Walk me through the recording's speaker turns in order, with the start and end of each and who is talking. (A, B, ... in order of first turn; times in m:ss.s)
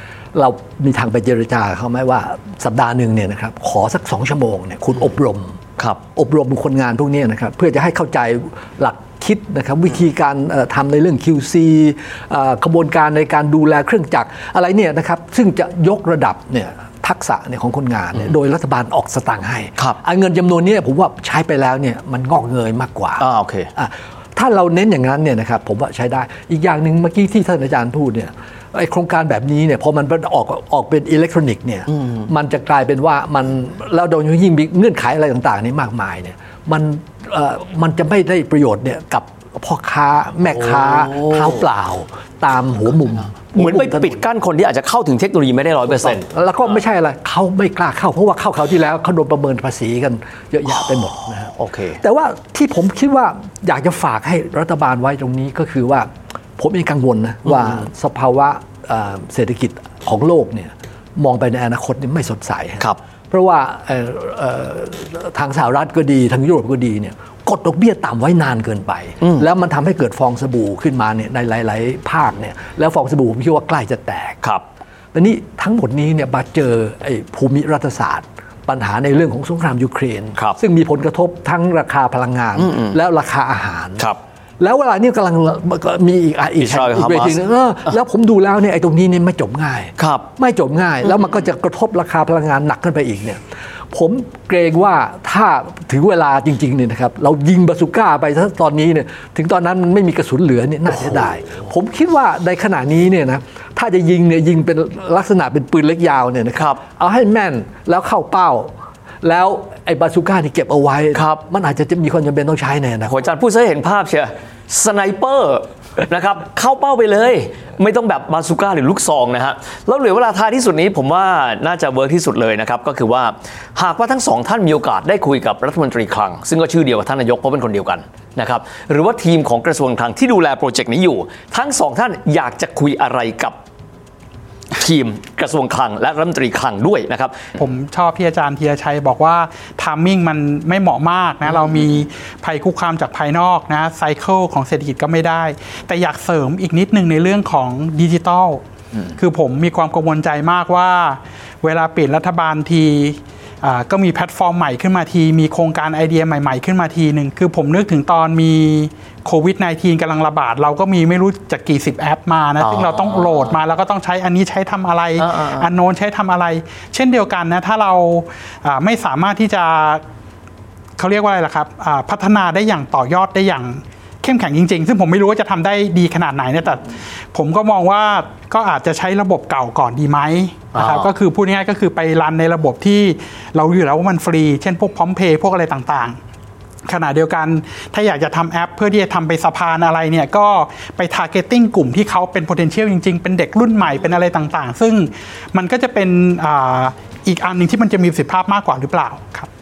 0:00.4-0:05.6 A
0:06.2-0:44.2 A
0:23.2-0:23.7 B
0:32.0-0:32.2 B
0:40.7-0:41.5 B
0:43.5-0:46.3 B
0:45.9-1:14.4 A
0:51.6-0:52.0 B
1:15.1-1:24.1 A
1:22.6-1:23.0 B
1:24.6-1:33.4 A
1:26.6-1:27.4 B
1:30.0-1:30.3 B
1:33.9-1:53.2 A
1:46.6-1:46.8 B
1:51.2-1:51.4 B
1:53.1-2:13.6 B
2:14.8-2:17.5 B
2:17.6-2:28.6 C
2:29.2-2:50.0 C
2:42.6-2:43.6 B
2:45.2-2:45.7 B
2:51.0-3:06.2 C
3:00.8-3:01.1 B
3:06.9-3:19.5 C